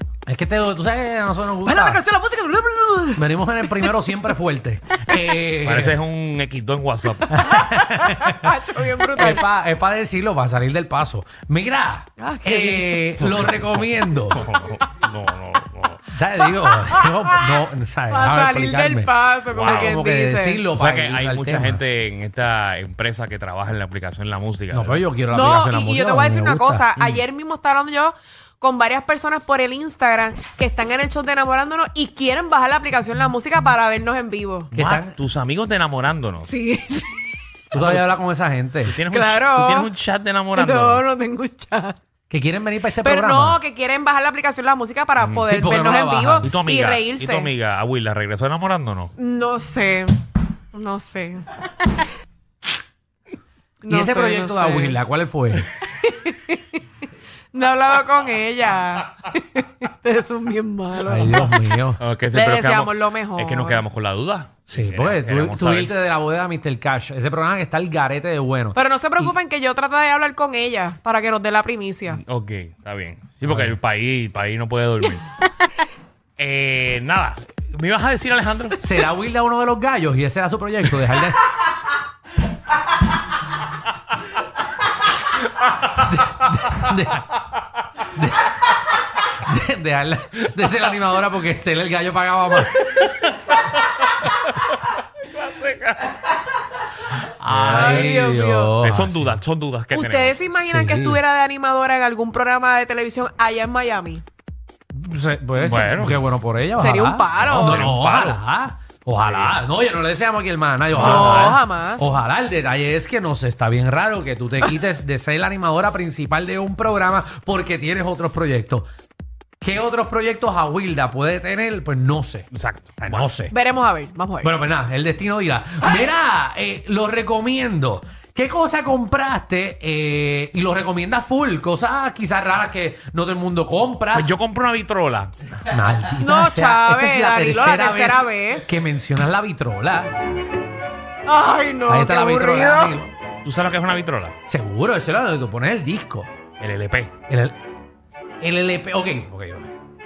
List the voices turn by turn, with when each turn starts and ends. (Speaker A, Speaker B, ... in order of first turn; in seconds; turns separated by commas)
Speaker A: 0.3-2.0, Speaker B: 1.6-3.9, Speaker A: 3.1-6.0, Speaker C: 5.6-7.5, Speaker A: 7.3-8.5, Speaker B: 7.5-9.5, Speaker A: 9.1-14.4, Speaker B: 12.2-13.1, Speaker C: 13.2-16.1, Speaker A: 16.1-21.8, Speaker B: 16.7-17.4, Speaker B: 18.1-20.6, Speaker C: 19.5-20.0, Speaker C: 20.7-25.1, Speaker A: 24.7-26.9, Speaker B: 25.3-34.7, Speaker C: 27.0-27.2, Speaker A: 34.7-35.1, Speaker C: 34.7-36.5, Speaker B: 36.4-37.3, Speaker A: 37.7-39.0, Speaker C: 37.7-38.1, Speaker C: 38.9-41.0, Speaker B: 39.1-39.9, Speaker B: 40.5-42.0, Speaker A: 42.3-43.6, Speaker B: 43.0-47.5, Speaker C: 45.2-45.5, Speaker A: 45.5-46.5, Speaker C: 46.4-49.1, Speaker B: 49.2-50.2, Speaker B: 50.7-51.5, Speaker B: 53.8-55.0, Speaker A: 53.9-55.7, Speaker B: 56.0-56.6, Speaker B: 57.5-61.5, Speaker A: 61.1-62.0, Speaker C: 62.0-65.9, Speaker B: 62.3-63.8, Speaker A: 64.7-69.3, Speaker B: 68.8-72.2, Speaker C: 72.1-75.2, Speaker A: 73.5-73.8, Speaker C: 76.4-78.8, Speaker A: 78.8-81.4, Speaker A: 85.8-87.3, Speaker A: 88.1-88.6, Speaker A: 89.3-92.9, Speaker C: 92.9-96.2, Speaker A: 97.4-99.4, Speaker C: 97.4-98.2, Speaker B: 97.7-98.8, Speaker C: 98.8-100.4, Speaker B: 99.9-104.2, Speaker A: 100.5-101.2, Speaker A: 104.9-118.9, Speaker C: 105.6-106.3, Speaker B: 106.8-107.9, Speaker C: 107.4-108.5, Speaker C: 109.2-109.6, Speaker C: 110.9-111.6, Speaker B: 111.0-112.2, Speaker A: 119.6-123.5, Speaker C: 122.5-123.3, Speaker B: 123.5-124.5, Speaker A: 124.4-134.3, Speaker C: 134.1-135.3, Speaker A: 135.6-140.1, Speaker B: 136.2-138.8, Speaker B: 141.3-143.0, Speaker A: 141.9-143.1, Speaker C: 143.4-144.4, Speaker A: 144.5-146.3, Speaker C: 146.6-147.1, Speaker A: 147.3-147.6, Speaker A: 148.4-149.7